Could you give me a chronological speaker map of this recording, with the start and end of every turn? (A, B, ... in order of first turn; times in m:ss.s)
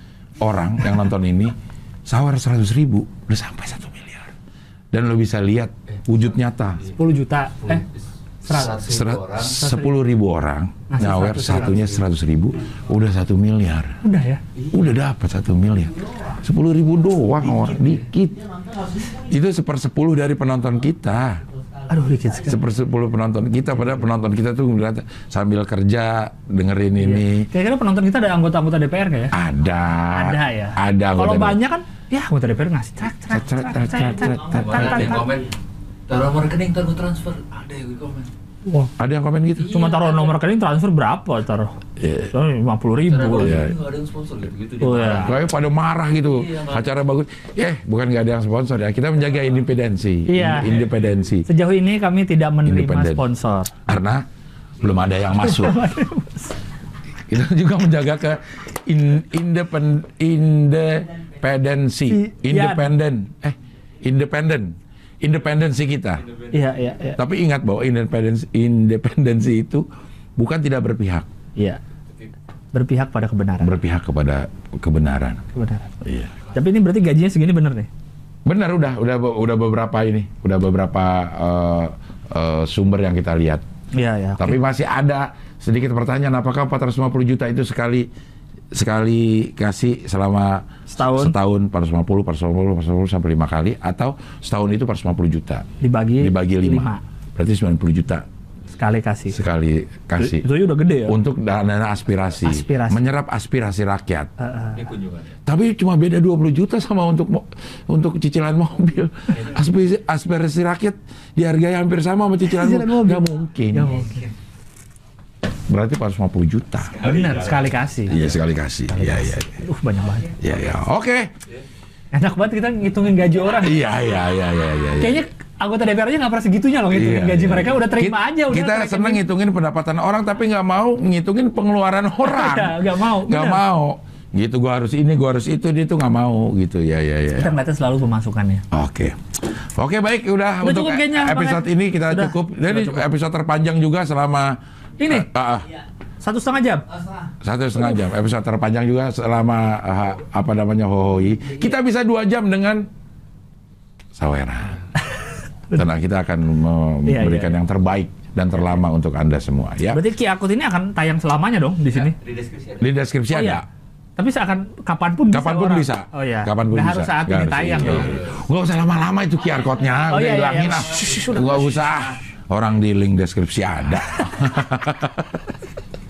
0:00.4-0:01.6 A
0:02.1-0:04.3 A
0:04.9-0:06.8 A
0:05.9-0:06.2 B
0:06.9-0:07.8 C
0:07.6-0:09.7 B
0:08.4-0:08.7 C
0:08.8-0:14.0 A
0:09.6-0:10.0 C
0:10.9-0:12.0 C
0:14.0-0:14.4 C
0:14.6-0:14.9 B
0:14.7-0:18.5 A
0:17.5-0:18.0 B
0:19.1-0:21.4 A
0:21.9-0:22.6 C
0:22.4-0:27.5 A
0:27.0-0:29.3 C
0:29.3-0:31.6 A
0:30.1-0:35.4 C
0:33.2-0:35.2 A
0:34.4-0:35.5 B
0:36.1-0:38.3 B
0:38.7-0:38.9 C
0:39.0-0:39.8 A
0:39.6-0:40.4 B
0:39.7-0:41.8 C
0:42.0-0:42.3 A
0:42.3-0:43.6 C
0:43.1-0:45.4 B
0:43.4-0:43.7 A
0:44.8-0:45.3 C
0:45.2-0:51.5 A
0:46.2-0:46.9 B
0:50.3-0:50.8 C
0:50.7-0:51.0 B
0:51.5-0:53.8 C
0:52.6-0:53.2 A
0:53.9-0:54.2 A
0:54.8-0:55.9 A
0:55.4-0:56.6 C
0:57.3-1:06.2 A
1:02.1-1:02.9 C
1:06.3-1:06.9 B
1:06.5-1:07.2 C
1:07.2-1:09.9 A
1:10.4-1:11.3 A
1:12.7-1:13.8 C
1:13.6-1:15.4 A
1:15.5-1:15.9 C
1:16.0-1:16.3 A
1:16.5-1:17.9 C
1:18.5-1:23.6 A
1:24.0-1:24.6 C
1:24.4-1:28.1 A
1:28.7-1:35.7 A
1:30.9-1:31.4 C
1:35.8-1:37.0 C
1:36.2-1:38.3 A
1:38.8-1:39.4 C
1:39.3-1:40.5 A
1:40.2-1:41.2 C
1:41.1-1:44.3 A
1:42.4-1:43.0 C
1:44.4-1:44.9 C
1:44.8-1:45.4 B
1:45.5-1:54.0 A
1:52.5-1:54.2 C
1:54.0-1:54.3 B
1:55.7-1:57.0 A
1:56.9-1:58.3 B
1:57.0-1:58.2 C
1:58.1-1:59.6 A
1:58.9-2:00.4 C
2:00.4-2:01.3 A
2:02.1-2:03.9 C
2:03.5-2:05.2 A
2:05.0-2:09.2 C
2:06.9-2:17.6 A
2:12.2-2:13.6 C
2:17.4-2:18.6 C
2:18.7-2:25.7 A
2:20.6-2:23.0 C
2:25.0-2:25.3 C
2:26.2-2:26.9 C
2:27.4-2:32.9 A
2:34.2-2:34.8 A
2:35.1-2:35.8 C
2:35.7-2:40.0 A
2:37.1-2:37.6 C
2:39.9-2:42.2 C
2:41.9-2:42.9 B
2:42.8-2:43.6 A
2:43.3-2:43.6 C
2:44.2-2:48.2 C
2:45.3-2:55.4 A
2:47.8-2:48.4 B
2:50.1-2:51.6 C